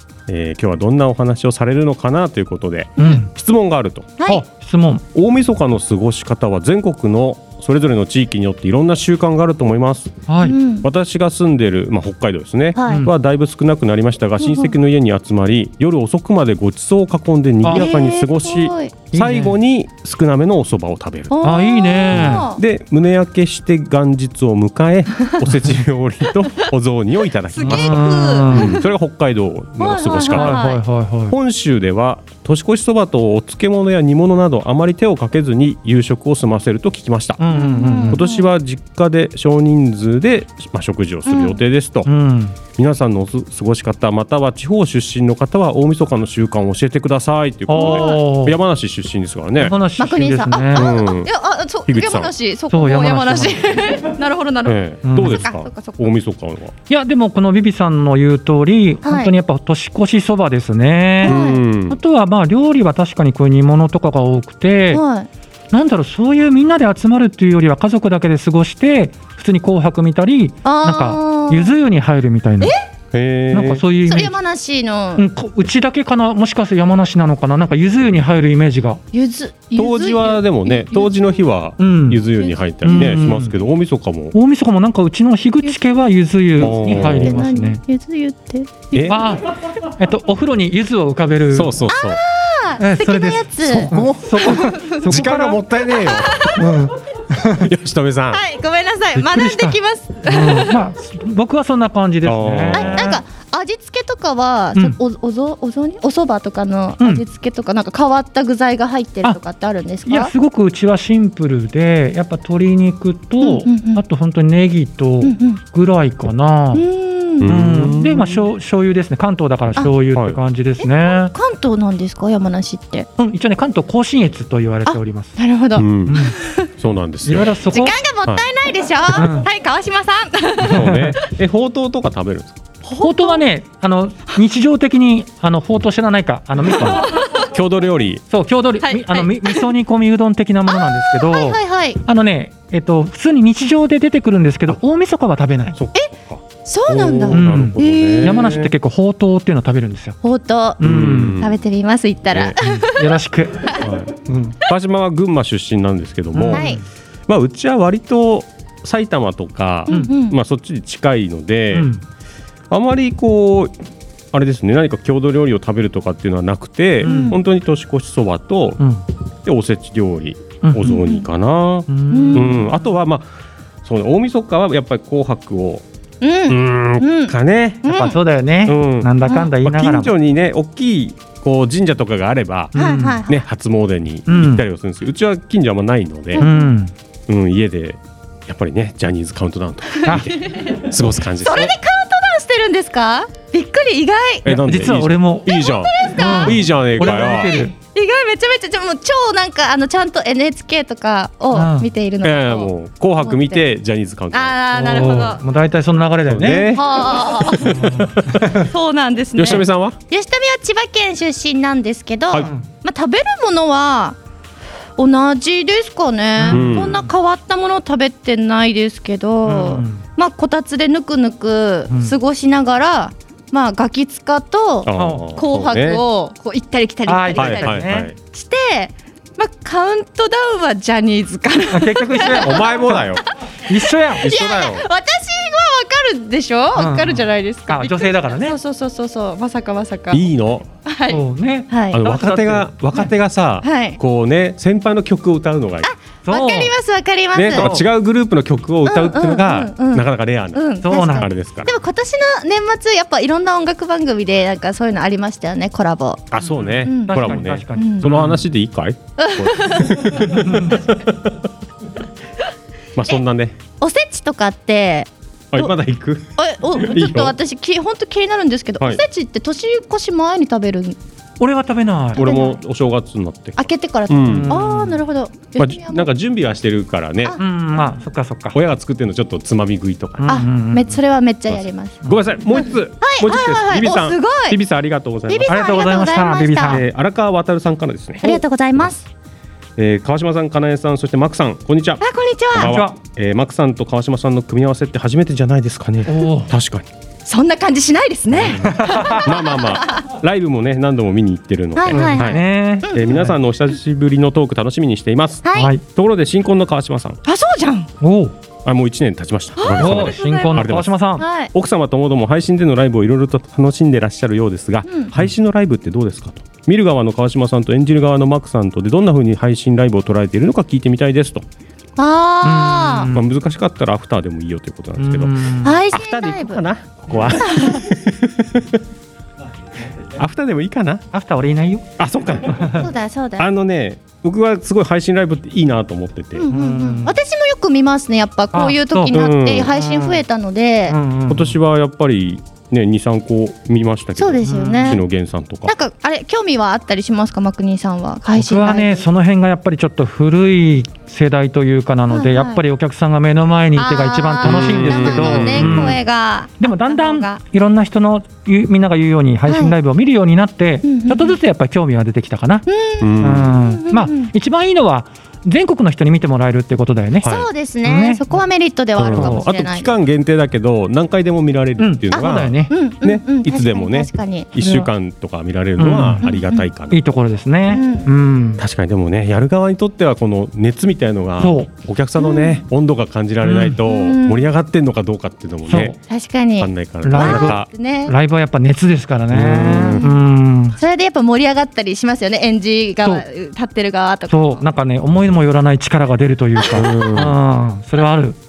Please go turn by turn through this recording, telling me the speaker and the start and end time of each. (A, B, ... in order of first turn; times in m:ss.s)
0:00.3-0:04.2 A
0:03.0-0:03.2 B
0:03.0-0:03.3 C
0:04.2-0:04.4 B
0:04.3-0:05.0 C
0:05.1-0:10.2 A
0:10.3-0:10.6 C
0:10.4-0:10.9 B
0:10.7-0:21.4 A
0:12.8-0:13.1 B
0:14.4-0:14.7 B
0:17.6-0:17.9 C
0:17.7-0:18.9 B
0:19.1-0:19.6 C
0:21.3-0:22.6 B
0:21.4-0:22.4 C
0:22.1-0:30.6 A
0:27.5-0:28.8 B
0:27.6-0:28.8 C
0:29.8-0:30.8 B
0:30.3-0:31.4 C
0:31.3-0:37.4 A
0:37.4-0:38.2 C
0:37.5-0:38.5 B
0:38.1-0:42.1 A
0:41.3-0:41.6 B
0:42.0-0:42.6 C
0:42.8-0:49.8 A
0:47.7-0:48.6 C
0:47.7-0:48.2 B
0:49.6-0:50.9 C
0:50.0-0:56.1 B
0:50.7-0:51.3 A
0:51.9-0:52.3 A
0:52.7-0:53.9 C
0:54.6-0:56.7 A
0:55.0-0:55.4 C
0:56.9-1:01.4 C
0:59.0-0:59.3 B
1:01.2-1:01.6 B
1:01.2-1:02.0 A
1:01.9-1:05.0 C
1:04.9-1:05.3 B
1:05.7-1:12.7 C
1:10.6-1:11.7 B
1:13.1-1:13.8 A
1:13.5-1:14.3 C
1:14.0-1:15.3 B
1:15.2-1:19.0 C
1:19.1-1:21.1 B
1:19.8-1:24.4 A
1:21.8-1:22.2 C
1:22.4-1:23.1 B
1:22.8-1:23.6 C
1:24.3-1:27.8 C
1:26.6-1:27.4 A
1:26.6-1:28.9 B
1:28.9-1:29.2 A
1:29.0-1:31.7 C
1:31.5-1:32.2 A
1:31.9-1:35.1 B
1:32.8-1:35.6 C
1:33.9-1:36.6 A
1:35.9-1:36.6 B
1:36.6-1:37.7 C
1:37.6-1:38.4 A
1:38.3-1:40.8 B
1:39.2-1:43.2 C
1:42.2-1:43.1 A
1:42.7-1:50.3 B
1:50.1-1:56.8 C
1:53.4-1:54.0 B
1:55.2-1:55.6 B
1:56.7-1:57.9 B
1:57.4-1:58.4 A
1:57.4-2:01.3 C
2:00.1-2:00.4 A
2:00.8-2:03.1 B
2:03.2-2:05.4 C
2:04.9-2:06.7 B
2:05.8-2:07.6 A
2:06.1-2:06.4 C
2:07.2-2:08.0 C
2:07.7-2:11.0 B
2:09.1-2:09.5 C
2:10.6-2:12.6 A
2:10.7-2:11.2 C
2:12.8-2:13.4 B
2:13.0-2:17.2 C
2:17.0-2:17.5 B
2:17.4-2:18.2 A
2:18.3-2:25.8 C
2:18.8-2:19.7 B
2:20.7-2:22.0 B
2:25.8-2:28.7 A
2:26.6-2:28.5 B
2:27.3-2:30.2 C
2:30.2-2:30.8 B
2:30.8-2:31.4 C
2:30.8-2:31.6 A
2:31.4-2:33.8 B
2:32.3-2:32.6 A
2:32.6-2:34.6 C
2:33.8-2:34.1 A
2:34.6-2:36.7 A
2:36.3-2:36.8 C
2:36.5-2:36.8 B
2:37.3-2:41.9 A
2:39.9-2:40.4 B
2:41.7-2:42.0 C
2:42.7-2:43.7 A
2:44.3-2:48.8 A
2:47.0-2:47.4 C
2:47.0-2:47.4 B
2:48.8-2:49.0 C
2:49.4-2:53.3 A
2:50.6-2:50.9 C
2:50.8-2:51.3 B
2:51.9-2:52.7 C
2:52.1-2:52.6 B
2:53.8-2:55.8 A
2:56.2-2:58.2 B
2:56.5-2:58.0 A
2:57.9-3:00.1 C
2:58.6-3:06.5 A
2:59.2-2:59.5 B
3:02.7-3:03.2 C
3:02.8-3:03.4 B
3:04.3-3:04.6 C
3:06.4-3:06.7 B
3:06.4-3:06.9 C
3:07.3-3:11.7 A
3:10.0-3:14.6 B
3:14.4-3:17.7 A
3:14.5-3:15.6 C
3:15.5-3:23.7 B
3:16.1-3:17.7 C
3:21.5-3:21.9 C
3:22.2-3:25.2 A
3:24.3-3:25.4 B
3:24.7-3:26.8 C
3:26.3-3:28.4 A
3:26.7-3:27.9 B
3:27.7-3:28.6 C
3:28.6-3:34.2 B
3:29.4-3:30.0 A
3:35.0-3:52.6 B
3:36.4-3:37.1 C
3:36.5-3:37.0 A
3:39.5-3:40.0 C
3:41.9-3:42.2 C
3:44.9-3:46.0 A
3:45.0-3:45.2 C
3:47.1-3:48.1 C
3:47.4-3:48.2 A
3:51.7-3:53.0 C
3:52.2-3:53.2 A
3:53.7-3:54.3 C
3:54.2-4:00.3 B
3:54.2-3:54.9 A
3:56.8-3:58.6 C
4:00.1-4:00.7 A
4:00.9-4:02.0 B
4:01.1-4:03.1 C
4:01.9-4:05.9 A
4:03.6-4:04.0 B
4:05.8-4:07.7 B
4:06.3-4:06.7 C
4:07.3-4:11.7 A
4:07.5-4:07.9 C
4:08.8-4:16.3 B
4:10.8-4:11.3 C
4:16.3-4:21.4 A
4:16.4-4:18.4 C
4:16.8-4:17.1 B
4:17.8-4:18.1 B
4:19.2-4:20.2 B
4:20.5-4:20.8 C
4:23.0-4:23.6 A
4:23.8-4:25.7 B
4:25.5-4:27.4 A
4:26.4-4:31.0 B
4:31.4-4:32.2 C
4:32.2-4:34.6 A
4:32.2-4:32.6 B
4:33.6-4:36.1 B
4:34.2-4:35.0 C
4:35.6-4:37.4 A
4:37.4-4:38.6 C
4:38.5-4:40.3 A
4:40.2-4:40.9 C
4:40.3-4:44.6 B
4:41.5-4:45.8 A
4:45.3-4:46.8 B
4:45.5-4:46.8 C
4:46.7-4:48.4 A
4:48.2-4:49.1 B
4:49.8-4:56.9 A
4:52.0-4:52.8 B
4:52.6-4:53.0 C
4:56.1-4:56.5 C
4:57.2-5:00.0 B
4:58.3-5:07.2 A
4:58.6-4:59.3 C
5:01.8-5:03.1 B
5:01.9-5:03.3 C
5:05.4-5:05.7 B
5:05.6-5:05.8 C
5:07.3-5:07.9 B
5:08.0-5:08.3 C
5:08.6-5:10.9 A
5:09.6-5:10.7 B
5:09.8-5:11.2 C
5:11.2-5:11.5 B
5:11.5-5:21.5 A
5:14.8-5:15.1 B
5:22.0-5:23.1 B
5:22.4-5:23.3 C
5:23.1-5:28.8 A
5:25.0-5:25.8 C
5:25.6-5:26.6 B
5:27.3-5:27.8 B
5:30.1-5:31.0 A
5:31.1-5:31.9 C
5:32.0-5:36.5 A
5:32.5-5:32.9 C
5:32.8-5:33.5 B
5:36.4-5:41.0 B
5:36.5-5:37.2 C
5:38.5-5:40.2 C
5:39.1-5:39.7 A
5:40.9-5:41.6 C
5:41.3-5:45.7 A
5:44.2-5:45.0 B
5:44.4-5:45.0 C
5:45.6-5:49.0 B
5:48.3-5:56.0 C
5:52.1-5:52.6 B
5:53.8-5:57.4 B
5:54.4-5:56.0 A
5:56.6-6:02.7 C
5:59.5-5:59.8 B
6:00.8-6:01.4 B
6:02.7-6:04.3 B
6:03.0-6:03.6 A
6:03.2-6:08.2 C
6:07.2-6:07.5 A
6:07.2-6:09.9 B
6:09.0-6:17.0 A
6:09.0-6:09.4 C
6:11.8-6:12.7 C
6:12.1-6:14.5 B
6:14.6-6:14.9 C
6:15.8-6:16.2 C
6:16.2-6:16.7 B
6:16.9-6:18.6 C
6:17.7-6:18.1 B
6:18.6-6:26.0 A
6:21.4-6:21.7 C
6:22.2-6:22.6 B
6:23.4-6:23.8 C
6:23.8-6:24.5 B
6:25.7-6:26.0 C
6:26.1-6:28.1 B
6:26.6-6:27.7 A
6:27.0-6:30.8 C
6:29.3-6:30.0 A
6:29.9-6:30.2 B
6:30.8-6:34.6 B
6:34.3-6:38.4 C
6:36.7-6:37.4 A